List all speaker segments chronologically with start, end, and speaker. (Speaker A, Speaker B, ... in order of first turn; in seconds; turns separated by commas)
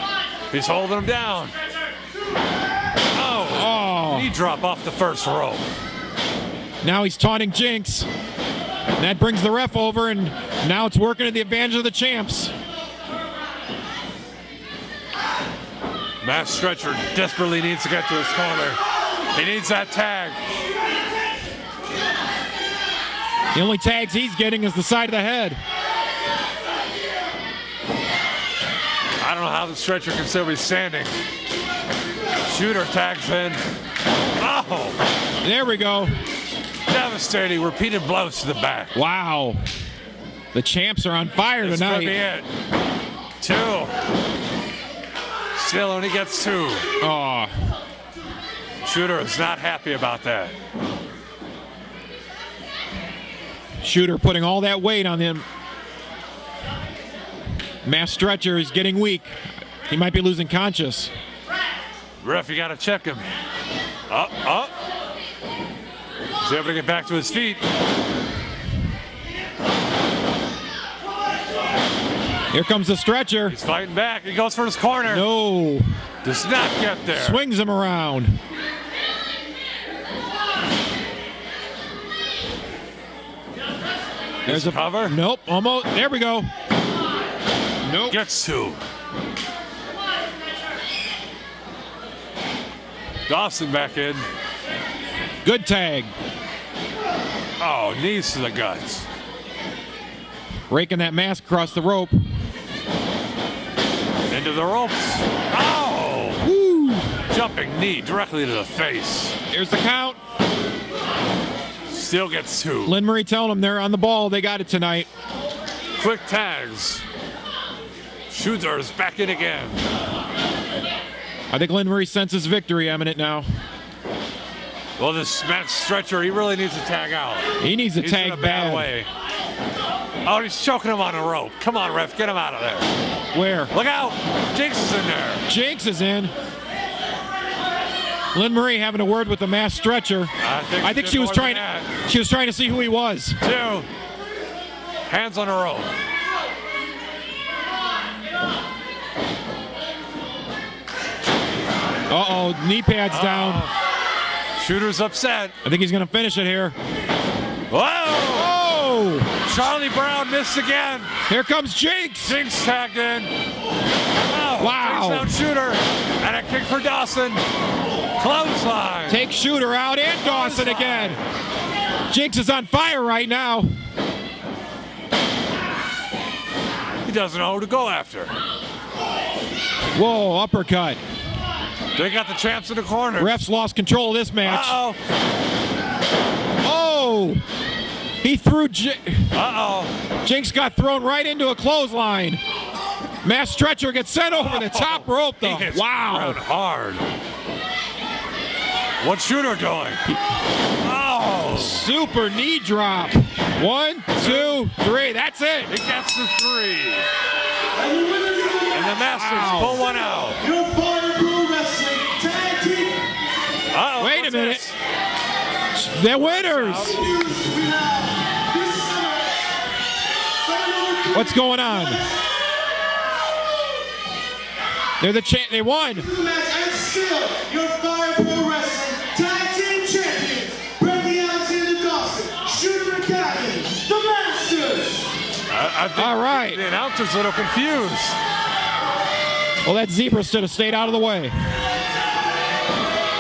Speaker A: 0.5-1.5, Speaker A: 3.1-5.6, Speaker B: 3.5-4.3, Speaker B: 6.8-8.1, Speaker B: 9.0-12.5, Speaker A: 16.2-18.8, Speaker A: 19.3-20.4, Speaker B: 23.5-25.6, Speaker A: 29.2-31.1, Speaker A: 32.4-33.6, Speaker A: 34.4-35.0, Speaker B: 35.4-36.1, Speaker A: 36.9-38.9, Speaker B: 38.9-39.6, Speaker B: 40.5-42.2, Speaker A: 41.6-42.5, Speaker A: 43.4-43.9, Speaker A: 45.5-46.9, Speaker B: 47.0-47.5, Speaker A: 48.8-50.5, Speaker B: 53.8-55.4, Speaker B: 57.8-61.1, Speaker A: 62.2-63.3, Speaker A: 64.1-64.7, Speaker A: 66.4-67.6, Speaker B: 72.5-73.5, Speaker A: 73.5-75.2, Speaker B: 75.1-75.9, Speaker A: 76.2-77.4, Speaker B: 77.1-78.4, Speaker A: 84.5-85.2, Speaker B: 84.5-86.5, Speaker B: 87.8-88.2, Speaker A: 88.1-88.8, Speaker A: 93.3-94.2, Speaker B: 95.4-96.1, Speaker A: 97.6-99.1, Speaker B: 100.7-102.2, Speaker A: 104.3-106.4, Speaker B: 106.4-107.1, Speaker A: 107.3-109.3, Speaker B: 109.5-110.2, Speaker A: 111.9-113.0, Speaker B: 112.8-115.1, Speaker A: 116.0-117.0, Speaker A: 118.3-119.8, Speaker B: 121.5-123.5, Speaker A: 125.0-129.1, Speaker B: 127.6-128.9, Speaker A: 130.2-132.9, Speaker B: 133.3-133.7, Speaker A: 133.7-135.4, Speaker B: 135.5-136.3, Speaker B: 138.3-143.4, Speaker A: 140.4-141.9, Speaker A: 143.4-143.9, Speaker A: 145.1-145.9, Speaker B: 152.1-153.7, Speaker A: 153.1-153.7, Speaker A: 154.6-155.5, Speaker B: 155.6-156.8, Speaker A: 157.7-158.5, Speaker B: 158.3-159.3, Speaker A: 159.4-161.1, Speaker B: 161.3-162.4, Speaker A: 162.2-163.3, Speaker A: 164.2-167.4, Speaker B: 164.6-165.3, Speaker A: 168.2-169.2, Speaker B: 169.1-171.2, Speaker A: 170.2-171.2, Speaker B: 172.1-173.7, Speaker A: 177.0-178.3, Speaker B: 179.9-181.0, Speaker A: 181.9-183.4, Speaker B: 183.2-184.8, Speaker A: 184.4-185.0, Speaker B: 186.6-187.4, Speaker B: 188.2-189.3, Speaker A: 189.3-189.9, Speaker B: 190.2-192.4, Speaker B: 193.2-196.4, Speaker A: 194.3-197.0, Speaker A: 199.0-200.0, Speaker A: 200.8-201.9, Speaker B: 201.5-205.7, Speaker A: 204.1-204.6, Speaker A: 205.7-207.1, Speaker C: 207.7-209.0, Speaker A: 208.7-210.4, Speaker B: 209.1-209.8, Speaker C: 210.2-213.0, Speaker A: 213.7-214.8, Speaker B: 214.0-214.7, Speaker B: 215.7-217.0, Speaker A: 216.1-217.0, Speaker C: 216.8-219.4, Speaker C: 220.4-222.1, Speaker B: 221.1-222.0, Speaker B: 225.0-226.1, Speaker C: 225.9-235.1, Speaker A: 235.5-238.2, Speaker B: 235.9-236.6, Speaker B: 239.6-241.3